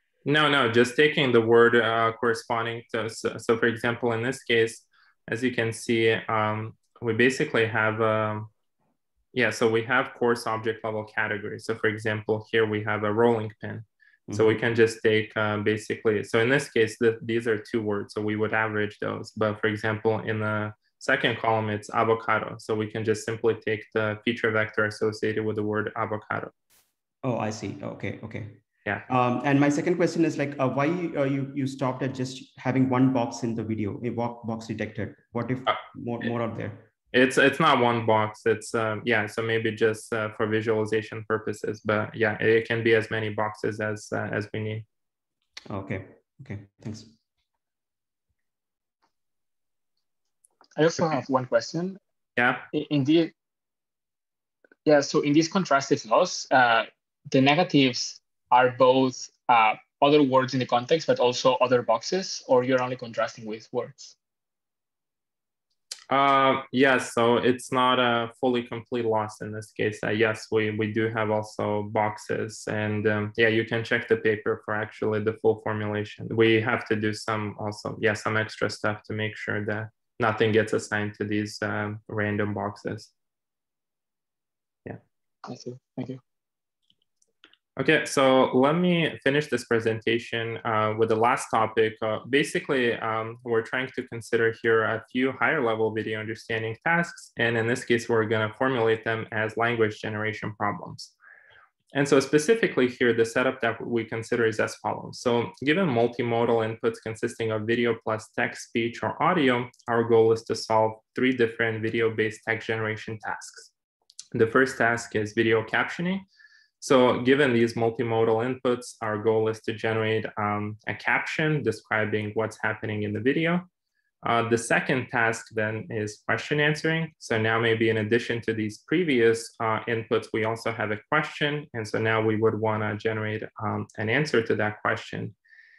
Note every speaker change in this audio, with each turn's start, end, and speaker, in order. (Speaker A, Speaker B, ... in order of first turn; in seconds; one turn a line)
Speaker A: 0.2-8.5
Speaker A: 9.3-26.5
Speaker B: 14.3-14.5
Speaker B: 27.2-36.9
Speaker A: 37.1-44.8
Speaker B: 45.7-47.1
Speaker C: 50.8-52.0
Speaker A: 52.4-52.6
Speaker C: 52.7-53.3
Speaker C: 54.9-64.1
Speaker A: 66.1-83.1
Speaker C: 85.4-86.2
Speaker A: 87.8-101.1
Speaker A: 101.9-113.7
Speaker A: 114.3-116.2
Speaker A: 116.8-123.7
Speaker A: 124.2-135.3